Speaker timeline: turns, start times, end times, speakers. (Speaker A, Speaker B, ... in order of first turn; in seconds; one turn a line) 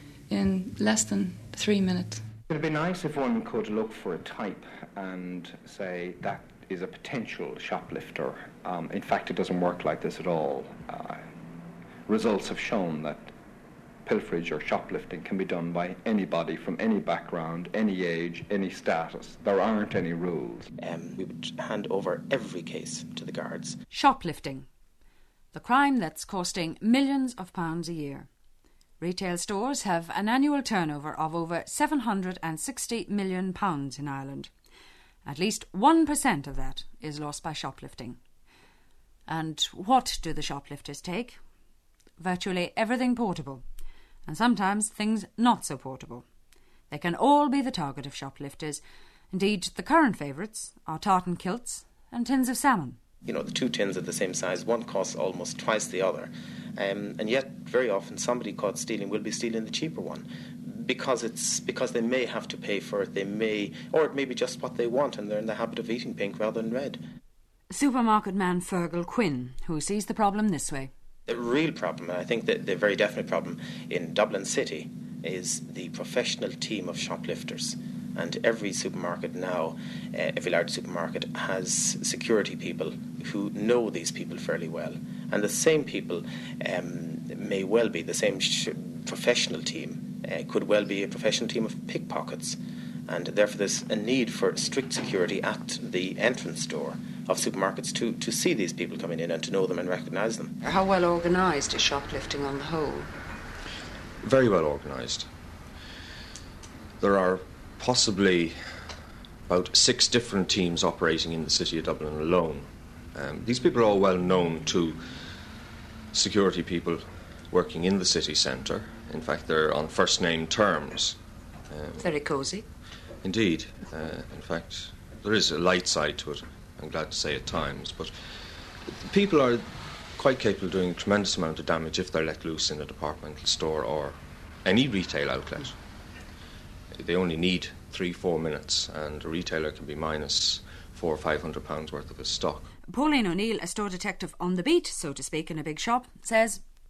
Speaker A: 0.3-2.2
Speaker B: 2.5-11.2
Speaker B: 12.1-13.3
Speaker B: 14.1-20.7
Speaker C: 20.8-23.8
Speaker D: 23.9-24.7
Speaker D: 25.5-28.3
Speaker D: 29.0-34.5
Speaker D: 35.2-38.2
Speaker D: 39.2-41.4
Speaker D: 42.2-43.6
Speaker D: 44.2-46.2
Speaker D: 46.9-53.0
Speaker C: 53.2-67.0
Speaker D: 67.7-70.9
Speaker C: 71.3-100.5
Speaker E: 100.6-103.1
Speaker F: 104.2-105.3
Speaker F: 107.0-108.8
Speaker F: 109.5-115.0
Speaker F: 116.1-121.2
Speaker F: 121.7-122.1
Speaker E: 122.0-122.7
Speaker F: 123.2-128.2
Speaker F: 128.8-135.8
Speaker F: 136.9-142.7
Speaker D: 142.9-146.6